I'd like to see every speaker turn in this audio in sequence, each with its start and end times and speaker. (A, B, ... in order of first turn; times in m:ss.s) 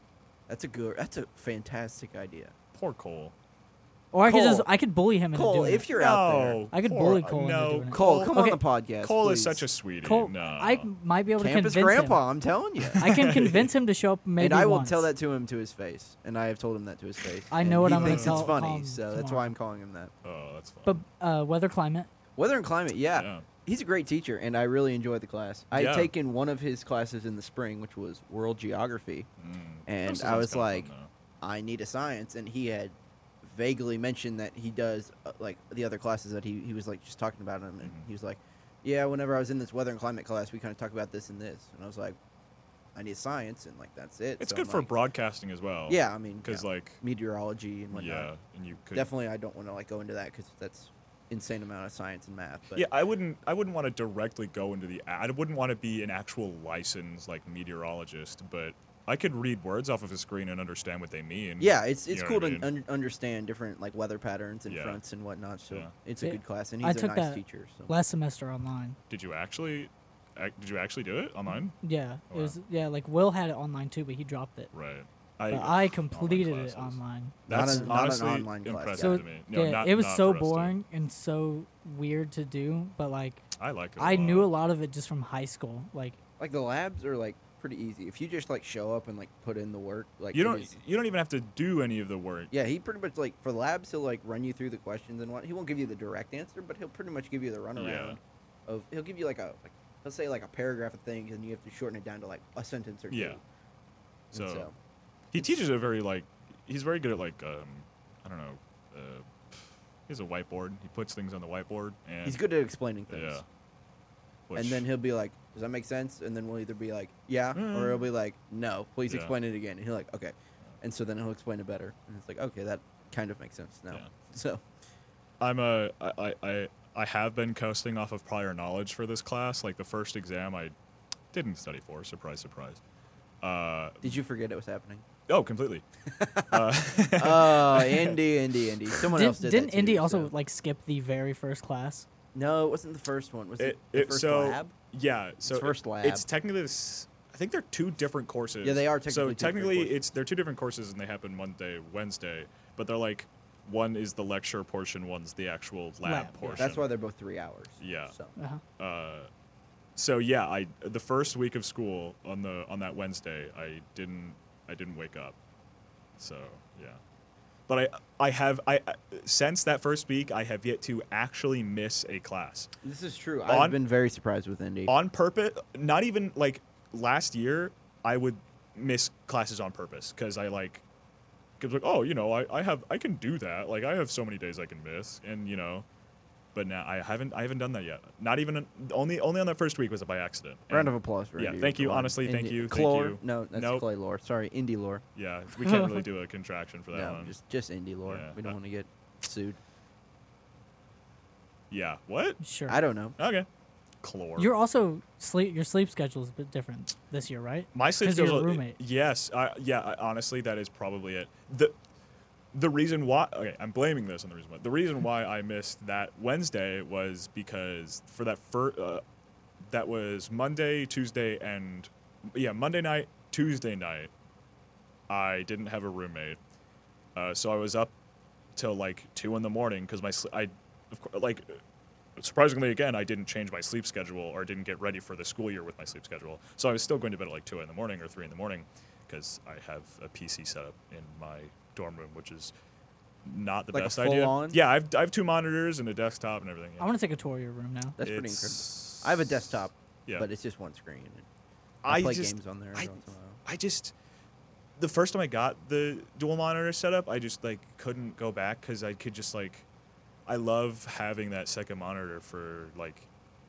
0:00.5-0:02.5 A
0:02.7-0:03.3 B
0:04.1-0:05.9 C
0:04.2-0:04.7 A
0:05.3-0:06.6 A
0:05.9-0:08.3 B
0:06.7-0:08.6 C
0:07.9-0:09.6 A
0:09.0-0:10.9 B
0:10.0-0:12.2 C
0:11.4-0:13.1 A
0:12.8-0:13.7 B
0:13.0-0:15.1 C
0:14.4-0:20.1 A
0:17.5-0:19.5 C
0:17.8-0:18.5 B
0:20.2-0:21.0 B
0:20.9-0:22.1 C
0:22.4-0:29.3 A
0:23.1-0:23.4 B
0:25.7-0:26.1 B
0:29.4-0:31.1 B
0:29.9-0:30.9 A
0:31.4-0:42.2 A
0:37.8-0:38.1 B
0:42.9-0:44.9 A
0:44.4-0:47.0 B
0:45.9-0:48.3 A
0:47.9-0:49.1 B
0:48.9-0:52.9 A
0:52.7-1:02.7 B
1:01.6-1:07.9 A
1:04.7-1:05.0 B
1:06.2-1:09.0 C
1:09.1-1:11.8 B
1:11.8-1:14.7 C
1:12.3-1:12.6 B
1:14.7-1:20.7 B
1:15.5-1:18.0 C
1:17.5-1:19.2 A
1:18.9-1:23.4 C
1:23.6-1:24.5 B
1:24.0-1:26.2 C
1:26.4-1:30.8 A
1:30.3-1:32.5 B
1:32.5-1:43.4 A
1:37.8-1:38.2 B
1:43.1-1:43.4 B
1:44.3-1:44.7 A
1:44.3-1:44.7 B
1:45.3-1:52.4 B
1:52.2-1:53.4 A
1:53.1-1:53.4 B
1:54.5-1:54.9 B
1:54.6-2:04.6 A
1:57.5-1:58.1 B
1:59.1-1:59.3 B
2:05.4-2:10.7 B
2:11.3-2:12.8 B
2:13.4-2:14.2 B
2:14.0-2:15.0 A
2:15.3-2:15.8 B
2:16.1-2:20.3 A
2:16.5-2:18.2 B
2:19.1-2:22.0 C
2:22.3-2:24.7 A
2:23.6-2:36.9 B
2:25.4-2:26.3 A
2:28.6-2:30.0 A
2:36.0-2:36.7 C
2:36.6-2:38.3 A
2:37.8-2:38.1 B
2:38.4-2:38.6 C
2:38.8-2:39.3 B
2:40.0-2:45.4 B
2:46.2-2:47.0 B
2:47.7-2:52.7 B
2:52.8-2:54.9 A
2:53.5-2:53.8 B
2:54.9-3:00.8 B
3:01.6-3:05.9 B
3:06.5-3:13.8 B
3:10.7-3:15.0 A
3:15.2-3:17.3 B
3:16.9-3:19.6 A
3:18.0-3:18.6 B
3:21.7-3:22.4 B
3:22.4-3:22.8 C
3:22.7-3:23.2 A
3:23.2-3:23.5 B
3:24.0-3:24.5 B
3:24.4-3:28.8 C
3:27.7-3:31.7 B
3:32.5-3:39.0 B
3:39.6-3:44.1 B
3:45.1-3:46.4 B
3:47.1-3:47.9 B
3:48.6-3:51.6 B
3:52.2-4:02.5 B
4:03.2-4:06.9 B
4:03.7-4:04.6 A
4:06.8-4:08.0 C
4:08.0-4:11.3 A
4:08.0-4:10.3 B
4:11.8-4:13.9 B
4:11.9-4:13.4 A
4:14.8-4:19.6 B
4:20.3-4:23.1 B